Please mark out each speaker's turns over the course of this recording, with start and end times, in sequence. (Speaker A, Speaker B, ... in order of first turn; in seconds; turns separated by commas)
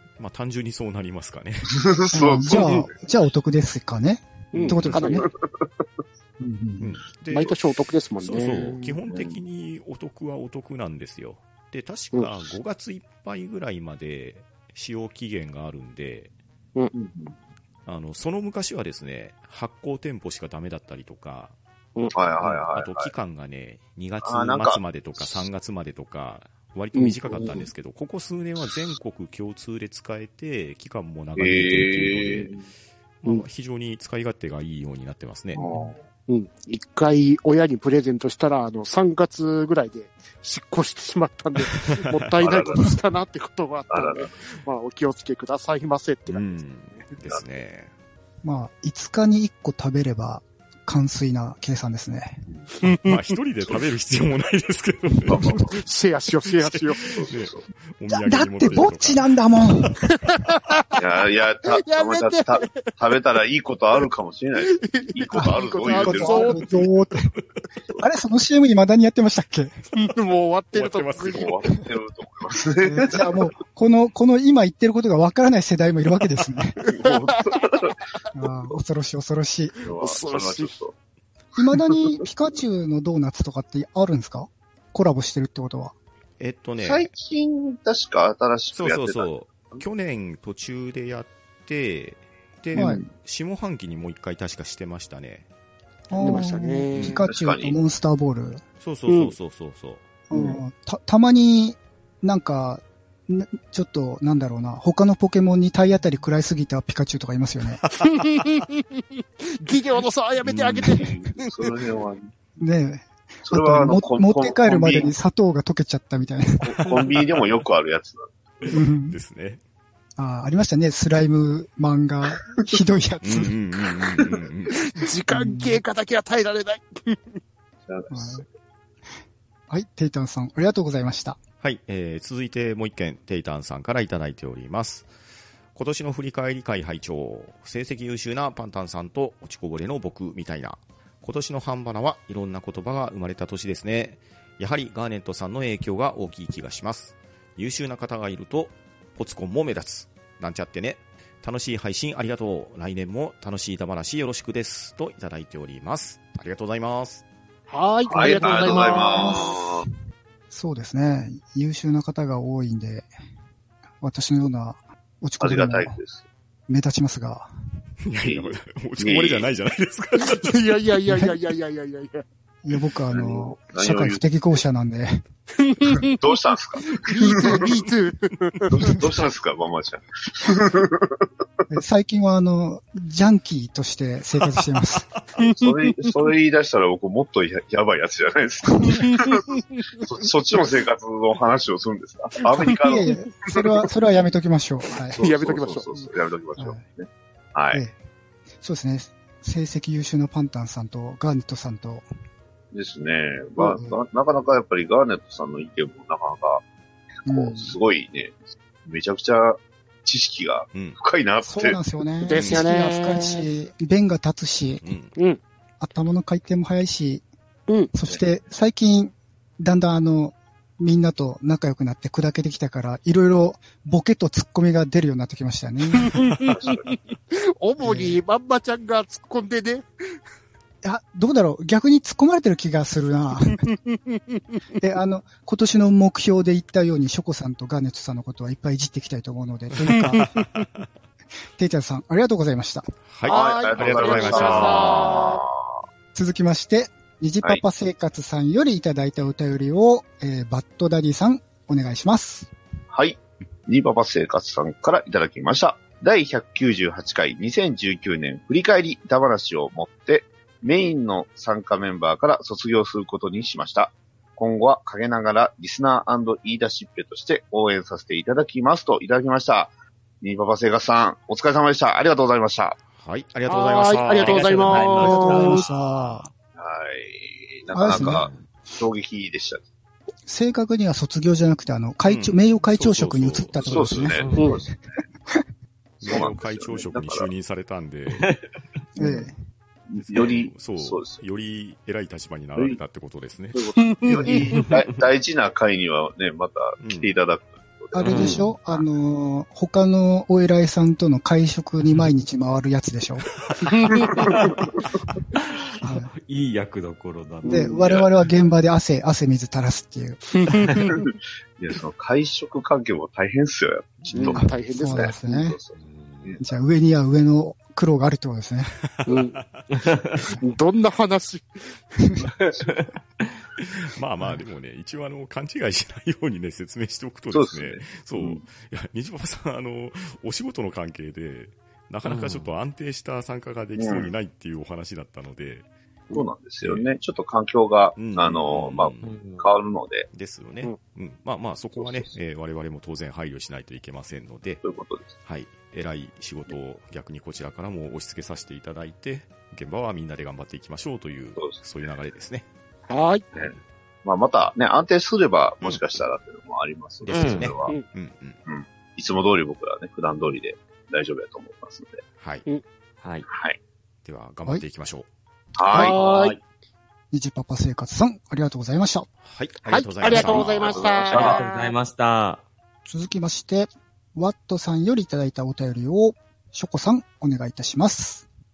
Speaker A: 0.2-1.9, Speaker B: 1.7-2.9, Speaker C: 2.1-5.3, Speaker D: 4.5-5.3, Speaker A: 4.6-5.2, Speaker B: 5.2-5.6, Speaker C: 6.4-6.9, Speaker A: 6.8-7.6, Speaker D: 7.3-9.0, Speaker A: 8.2-16.3, Speaker B: 9.1-9.4, Speaker B: 16.9-17.4, Speaker A: 17.9-21.5, Speaker B: 22.1-23.1, Speaker A: 22.4-32.6, Speaker B: 24.2-25.5, Speaker D: 26.9-27.6, Speaker B: 27.3-27.6, Speaker B: 31.4-32.6, Speaker A: 33.2-35.7, Speaker B: 35.5-36.0, Speaker D: 36.3-47.0, Speaker A: 41.7-42.2, Speaker B: 42.4-42.9, Speaker B: 43.9-44.3, Speaker A: 46.3-47.9, Speaker C: 48.4-52.4, Speaker D: 52.8-53.2, Speaker A: 52.9-55.7, Speaker B: 55.2-55.8, Speaker D: 55.7-57.1, Speaker A: 56.4-59.3, Speaker B: 57.1-57.6, Speaker C: 58.1-60.0, Speaker D: 60.1-61.0, Speaker B: 61.0-66.6, Speaker D: 61.6-63.0, Speaker D: 64.6-66.7, Speaker C: 65.3-67.3, Speaker C: 68.0-69.7, Speaker D: 69.9-71.5, Speaker A: 70.7-71.6, Speaker B: 71.3-73.3, Speaker C: 72.8-76.8, Speaker D: 76.8-77.6, Speaker B: 76.9-78.0, Speaker C: 78.3-79.8, Speaker B: 79.8-80.9, Speaker D: 80.0-80.7, Speaker C: 81.5-85.9, Speaker A: 86.4-87.1, Speaker B: 86.8-89.7, Speaker A: 88.7-95.5, Speaker C: 92.7-93.0, Speaker C: 96.1-98.6, Speaker D: 96.2-97.2, Speaker B: 97.0-97.8, Speaker A: 98.8-100.0, Speaker D: 99.1-99.3, Speaker C: 100.3-107.8, Speaker B: 100.3-100.6, Speaker D: 108.0-111.7, Speaker A: 110.4-111.0, Speaker B: 110.9-112.3, Speaker C: 112.6-116.8, Speaker B: 113.5-115.1, Speaker B: 116.6-118.8, Speaker A: 118.6-119.6, Speaker C: 118.7-119.2, Speaker C: 120.2-123.5, Speaker A: 123.2-124.8, Speaker D: 124.7-127.4, Speaker C: 125.3-125.8, Speaker B: 127.8-128.4, Speaker C: 128.1-128.4, Speaker C: 129.7-131.4, Speaker A: 131.6-135.1, Speaker A: 135.7-157.2, Speaker D: 157.7-159.4, Speaker B: 158.1-159.8, Speaker C: 158.4-159.8, Speaker C: 160.5-163.1, Speaker C: 164.0-166.0, Speaker B: 165.4-166.2, Speaker C: 166.7-167.5, Speaker A: 168.0-170.7, Speaker B: 168.2-169.5, Speaker D: 170.2-172.2, Speaker C: 171.1-171.3, Speaker C: 172.6-175.2, Speaker B: 173.1-174.2, Speaker D: 175.6-176.2, Speaker B: 176.0-177.8, Speaker D: 176.9-178.9, Speaker B: 178.7-181.2, Speaker C: 181.7-185.1, Speaker B: 185.4-193.5, Speaker D: 185.4-186.1, Speaker D: 188.9-189.8, Speaker C: 192.8-195.2, Speaker D: 195.1-196.0, Speaker B: 195.1-197.8, Speaker C: 196.6-196.8, Speaker C: 198.6-202.1, Speaker B: 202.7-206.6, Speaker C: 203.6-204.0, Speaker B: 207.2-211.8, Speaker C: 207.2-207.8, Speaker A: 210.7-211.0, Speaker C: 211.4-214.9, Speaker D: 212.2-213.4, Speaker A: 212.3-212.6, Speaker A: 214.8-215.1, Speaker D: 215.2-215.4, Speaker C: 215.8-217.2, Speaker D: 217.7-217.9, Speaker C: 217.9-226.2, Speaker D: 225.9-229.9, Speaker B: 226.5-226.9, Speaker C: 227.8-228.2, Speaker C: 230.8-233.6, Speaker D: 233.5-234.6, Speaker C: 234.8-240.2, Speaker D: 239.9-240.7, Speaker A: 240.2-240.8, Speaker C: 241.6-242.9, Speaker A: 243.1-245.3, Speaker D: 243.2-245.4, Speaker B: 243.2-245.7, Speaker C: 246.1-252.5, Speaker B: 252.9-272.8, Speaker A: 272.9-275.9, Speaker D: 273.5-275.6, Speaker E: 274.1-275.6, Speaker C: 275.0-276.3, Speaker B: 276.6-279.6, Speaker C: 277.7-278.3, Speaker E: 278.0-278.4, Speaker C: 280.2-284.3, Speaker A: 282.1-284.2, Speaker B: 283.6-284.9, Speaker E: 284.2-284.5, Speaker A: 286.0-288.3, Speaker B: 286.0-287.3, Speaker E: 288.1-288.4, Speaker C: 289.0-289.3, Speaker B: 289.9-291.2, Speaker A: 290.0-293.6, Speaker B: 293.5-298.8, Speaker D: 293.8-294.6, Speaker A: 296.8-297.1, Speaker C: 297.9-303.3, Speaker E: 298.0-298.5, Speaker D: 303.6-304.2, Speaker E: 305.3-308.1, Speaker C: 305.8-306.1, Speaker D: 307.4-307.9, Speaker C: 307.4-310.3, Speaker D: 310.3-311.0, Speaker E: 310.5-310.8, Speaker B: 310.9-316.6, Speaker D: 314.1-315.2, Speaker C: 314.3-315.6, Speaker E: 315.7-316.4, Speaker C: 316.4-318.7, Speaker A: 318.9-319.6, Speaker D: 319.1-319.8, Speaker E: 319.8-320.3, Speaker D: 320.3-322.0, Speaker E: 322.4-322.9, Speaker A: 323.6-335.7, Speaker B: 327.3-328.4, Speaker E: 332.0-332.5, Speaker B: 333.8-334.1, Speaker B: 336.1-340.1, Speaker A: 337.9-339.1, Speaker E: 339.0-339.5, Speaker A: 340.1-344.6, Speaker B: 341.8-342.1, Speaker B: 344.6-345.1, Speaker A: 345.2-352.4, Speaker D: 352.9-353.2, Speaker B: 353.3-357.8, Speaker A: 357.0-358.4, Speaker E: 357.1-357.5, Speaker B: 358.4-362.0, Speaker A: 362.2-362.4, Speaker E: 363.0-363.3, Speaker B: 363.3-363.6, Speaker A: 364.0-365.1, Speaker B: 365.5-366.3, Speaker D: 365.7-366.3, Speaker E: 365.9-366.4, Speaker C: 367.1-369.1, Speaker A: 369.2-370.9, Speaker D: 369.6-371.7, Speaker B: 370.1-371.4, Speaker E: 370.1-372.4, Speaker C: 372.9-378.2